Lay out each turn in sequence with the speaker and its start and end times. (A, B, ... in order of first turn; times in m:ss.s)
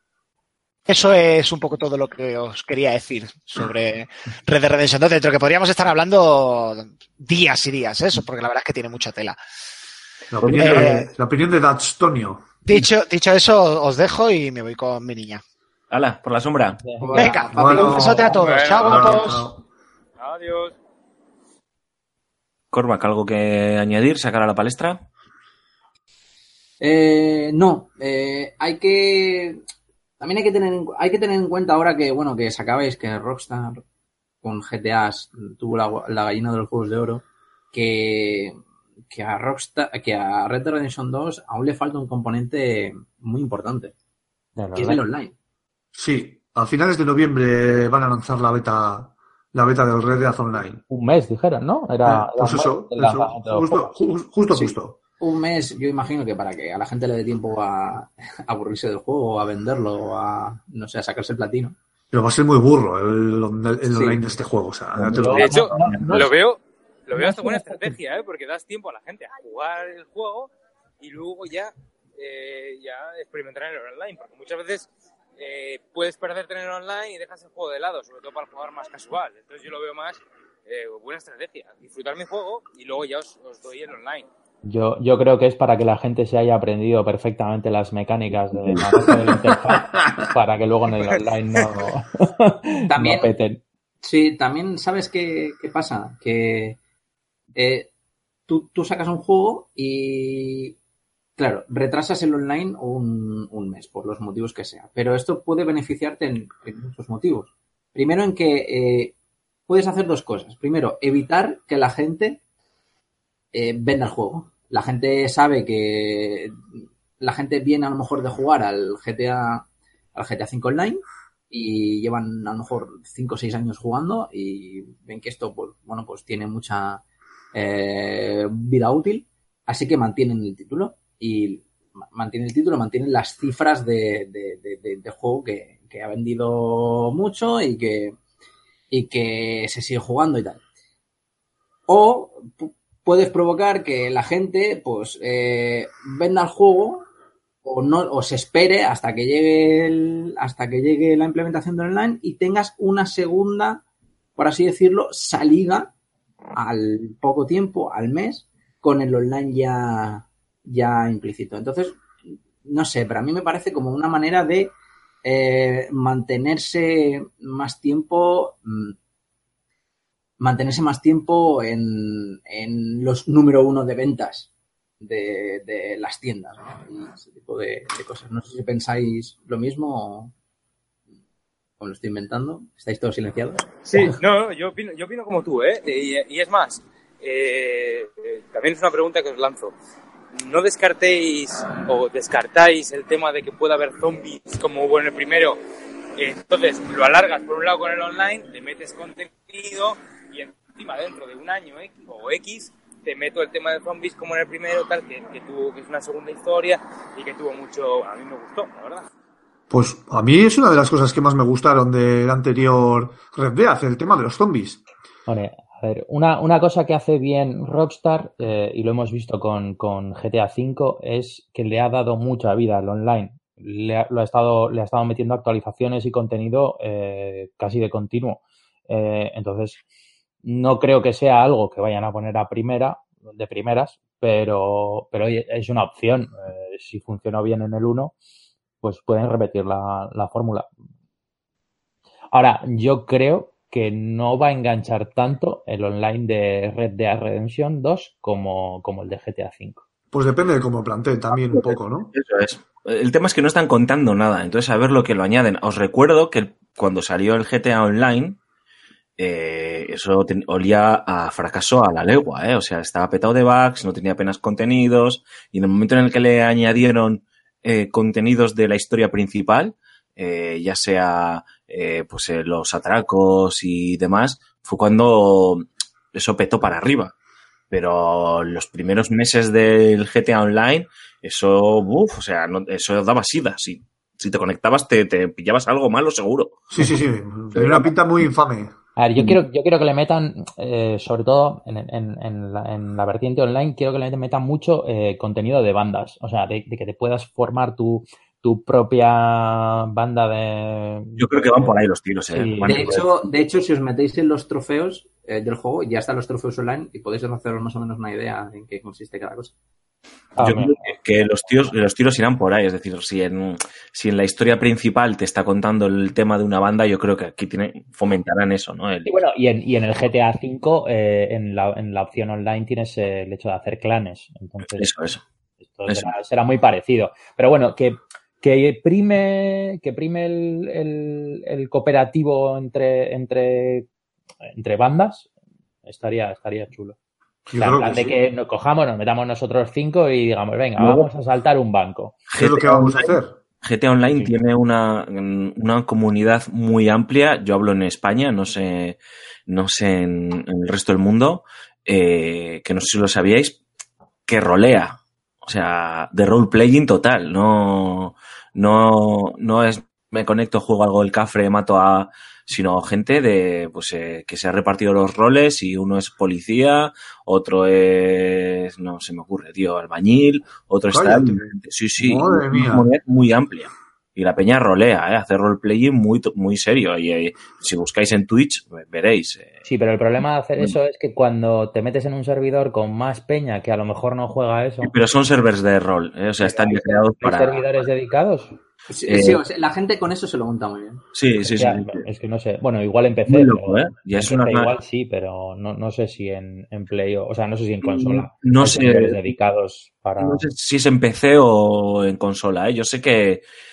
0:00.9-0:09.4 A
0:10.3-0:12.6 B
0:10.4-0:10.9 C
0:10.5-0:11.1 A
0:12.7-0:15.4 A
0:15.9-0:16.8 C
0:16.8-0:17.1 D
0:17.0-0:18.4 E
0:17.2-0:19.5 A
0:17.3-0:19.6 B
0:18.3-0:19.4 F
0:20.2-0:20.8 F
0:22.7-0:25.0 C
0:26.8-0:29.6 E
0:30.2-0:33.8 E
0:34.4-0:38.6 E
0:39.1-0:43.9 E
0:44.6-0:45.0 D
0:44.8-0:45.3 E
0:46.0-0:50.8 B
0:50.9-0:54.0 D
0:52.0-0:55.0 B
0:54.5-1:01.8 E
1:02.1-1:05.7 B
1:03.9-1:04.2 E
1:05.0-1:06.2 C
1:05.1-1:06.3 D
1:05.3-1:24.3 F
1:07.2-1:07.7 D
1:24.6-1:33.6 D
1:29.1-1:30.3 B
1:32.8-1:33.3 E
1:34.0-1:36.8 E
1:37.6-1:37.9 E
1:38.5-1:40.8 E
1:41.4-1:49.1 E
1:49.7-1:52.4 E
1:53.5-1:56.6 E
1:57.2-2:07.0 E
2:07.5-2:18.2 E
2:18.9-2:20.6 E
2:21.9-2:27.1 E
2:27.6-2:33.8 E
2:34.4-2:35.9 E
2:36.5-2:42.0 E
2:42.6-2:44.7 E
2:45.2-2:49.0 E
2:50.4-2:54.5 E
2:55.0-3:00.3 E
3:01.8-3:04.2 E
3:03.8-3:09.7 F
3:10.3-3:15.6 F
3:16.2-3:29.1 F
3:29.7-3:34.8 B
3:35.3-3:49.8 D
3:50.4-3:58.1 D
3:58.8-4:00.7 D
4:02.3-4:09.8 D
4:10.1-4:12.1 B
4:11.4-4:18.4 C
4:19.2-4:37.1 C
4:37.7-4:46.7 C
4:46.7-4:49.4 B
4:49.0-5:01.7 D
5:01.2-5:03.1 C
5:02.3-5:03.0 D
5:02.7-5:09.5 E
5:10.4-5:10.9 D
5:10.4-5:19.2 C
5:19.1-5:24.9 D
5:24.7-5:25.2 C
5:25.7-5:33.9 D
5:34.5-5:35.3 D
5:35.9-5:37.0 D
5:37.5-5:38.2 B
5:37.6-5:42.2 D
5:40.8-5:41.1 C
5:42.3-5:49.0 C
5:42.4-5:43.3 B
5:49.5-5:53.6 C
5:54.3-6:19.6 C
6:10.9-6:12.9 B
6:19.6-6:24.9 D
6:24.8-6:27.8 C
6:26.4-6:27.0 E
6:27.2-6:28.6 D
6:28.9-6:31.0 E
6:29.1-6:29.4 C
6:31.1-6:32.0 C
6:31.5-6:40.4 D
6:33.3-6:34.8 C
6:37.8-6:39.2 C
6:40.2-6:43.4 C